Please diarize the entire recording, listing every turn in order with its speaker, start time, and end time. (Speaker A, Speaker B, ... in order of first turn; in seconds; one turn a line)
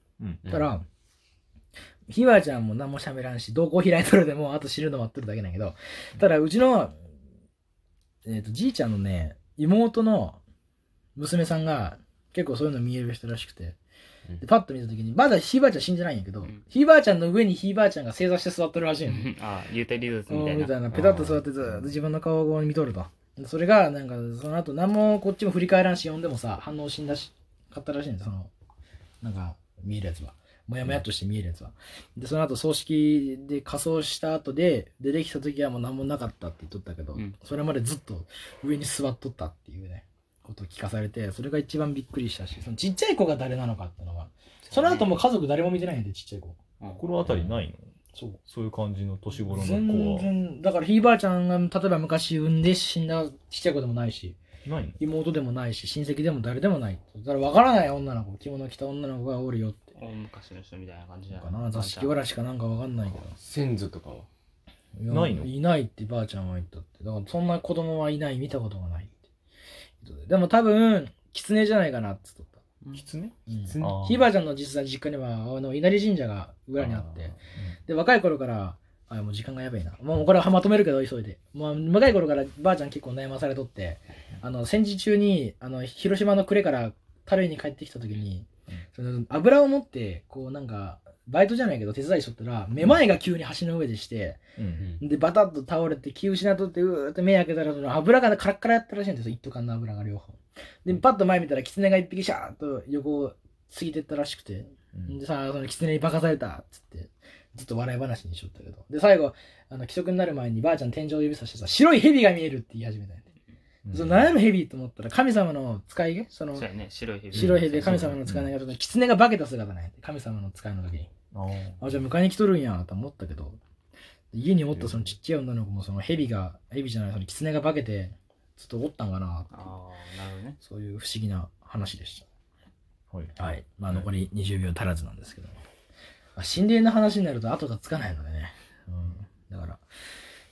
Speaker A: 0.2-0.5
Speaker B: 0.4-0.7
Speaker C: 0.5-0.8
Speaker C: 2.1-6.9
Speaker C: 8.2-10.4
Speaker C: 11.2-13.8
Speaker C: 14.4-19.3
Speaker D: 19.0-20.8
Speaker C: 20.3-28.5
Speaker B: 20.9-21.4
Speaker C: 29.2-46.6
Speaker D: 44.6-45.1
Speaker A: 47.0-47.9
Speaker C: 48.1-48.4
Speaker A: 48.5-50.3
Speaker C: 49.5-54.4
Speaker A: 54.6-55.0
Speaker C: 55.0-59.8
Speaker D: 60.0-62.2
Speaker C: 61.3-63.3
Speaker B: 63.2-64.3
Speaker C: 65.0-69.2
Speaker A: 65.1-65.5
Speaker C: 70.0-72.6
Speaker A: 72.9-74.3
Speaker C: 73.5-113.2
Speaker A: 76.8-77.7
Speaker A: 94.6-94.9
Speaker A: 113.8-114.3
Speaker C: 113.9-116.7
Speaker D: 116.5-118.2
Speaker C: 117.3-121.1
Speaker A: 117.3-118.5
Speaker A: 121.3-121.9
Speaker C: 121.8-123.6
Speaker C: 124.3-129.7
Speaker A: 124.7-125.1
Speaker D: 129.5-130.6
Speaker C: 130.6-132.2
Speaker A: 133.1-133.4
Speaker C: 133.3-135.6
Speaker C: 136.3-139.8